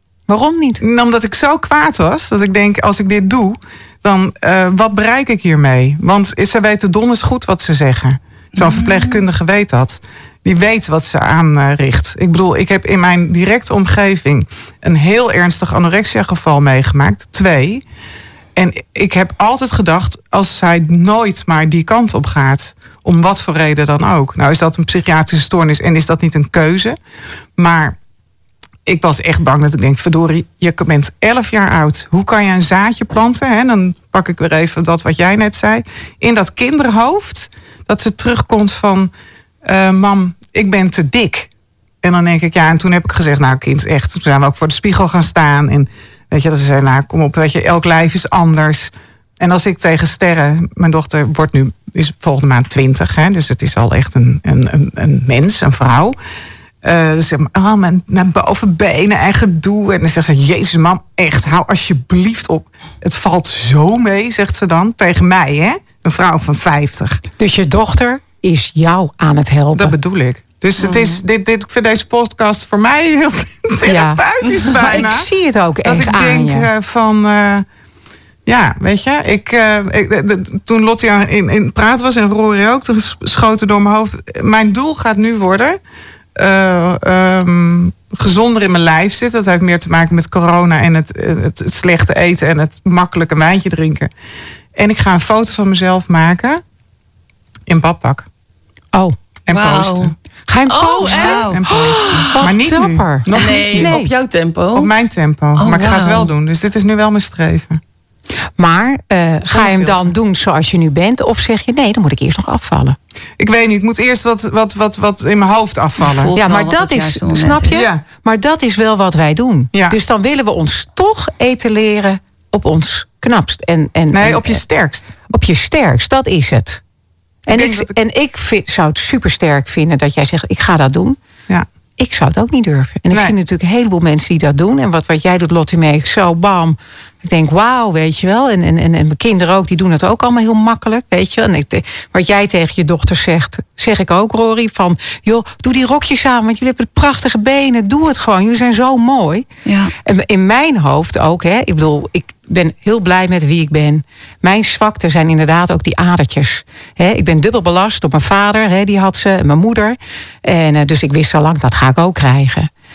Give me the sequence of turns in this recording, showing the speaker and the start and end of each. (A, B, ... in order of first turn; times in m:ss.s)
0:00.3-0:00.8 A
0:00.8-0:17.8 B
0:08.6-0:09.2 C
0:18.6-0:27.0 B
0:27.6-0:28.0 B
0:28.8-0:39.1 B
0:39.6-0:41.5 B
0:42.0-0:56.2 B
0:56.8-1:07.2 B
1:07.4-1:10.0 A
1:09.7-1:15.3 B
1:13.8-1:16.7 A
1:15.8-1:17.6 B
1:18.4-1:25.8 B
1:26.4-1:34.1 B
1:34.7-1:36.6 B
1:37.7-1:38.3 B
1:39.5-1:40.1 B
1:39.5-1:40.1 D
1:40.5-1:44.1 A
1:40.7-1:42.4 D
1:41.1-1:41.8 C
1:41.5-1:44.0 B
1:43.3-1:44.9 D
1:44.7-1:47.8 B
1:45.6-1:46.3 D
1:48.6-1:53.0 A
1:49.5-1:50.2 B
1:53.4-1:56.3 B
1:56.0-1:57.8 C
1:56.4-2:04.6 A
1:57.7-1:58.0 B
2:04.1-2:05.2 B
2:05.3-2:06.8 A
2:07.5-2:11.2 A
2:07.5-2:08.0 B
2:12.0-2:29.5 A
2:29.6-2:29.9 C
2:30.0-2:42.7 A